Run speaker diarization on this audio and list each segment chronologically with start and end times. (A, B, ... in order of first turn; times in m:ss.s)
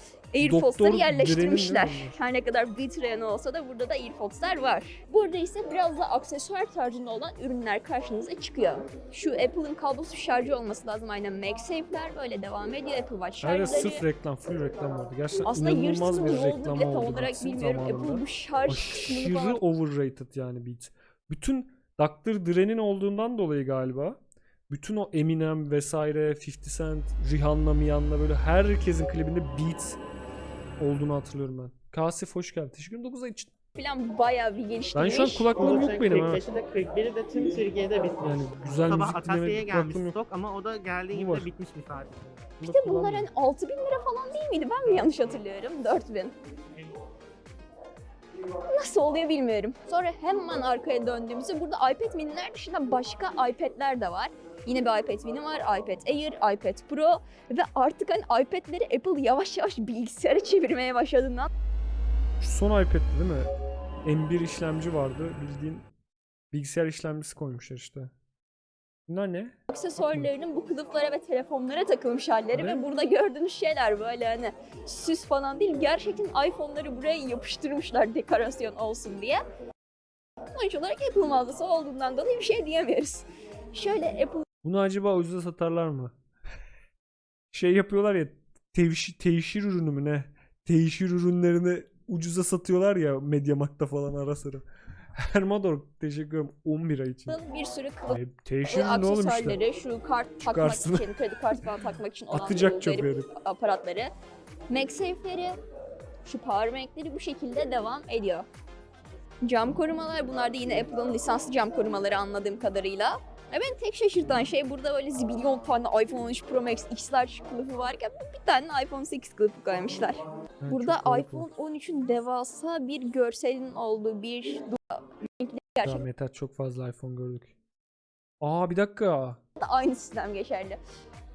0:00.3-0:14.0 A
0:00.4-0:02.2 B
0:13.4-0:24.2 B
0:15.4-0:19.6 A
0:24.7-0:30.0 B
0:30.8-0:33.5 B
0:33.8-0:35.6 A
0:34.9-0:36.5 B
0:35.5-0:42.4 C
0:38.2-0:40.2 B
0:41.1-0:41.5 B
0:42.4-0:43.3 B
0:42.6-0:46.3 A
0:48.7-1:01.5 A
1:02.4-1:03.5 B
1:04.0-1:05.9 B
1:06.5-1:08.1 B
1:09.1-1:10.3 B
1:09.7-1:19.4 A
1:12.5-1:12.9 B
1:20.6-1:24.4 A
1:24.6-1:26.1 B
1:27.5-1:34.6 B
1:35.2-1:37.4 B
1:37.3-1:44.1 A
1:38.1-1:39.6 B
1:40.4-1:41.1 B
1:42.3-1:43.3 B
1:44.7-1:45.6 A
1:46.2-1:48.4 A
1:49.4-2:06.0 A
2:00.6-2:01.5 B
2:05.8-2:07.5 B
2:08.4-2:09.4 B
2:09.6-2:10.8 A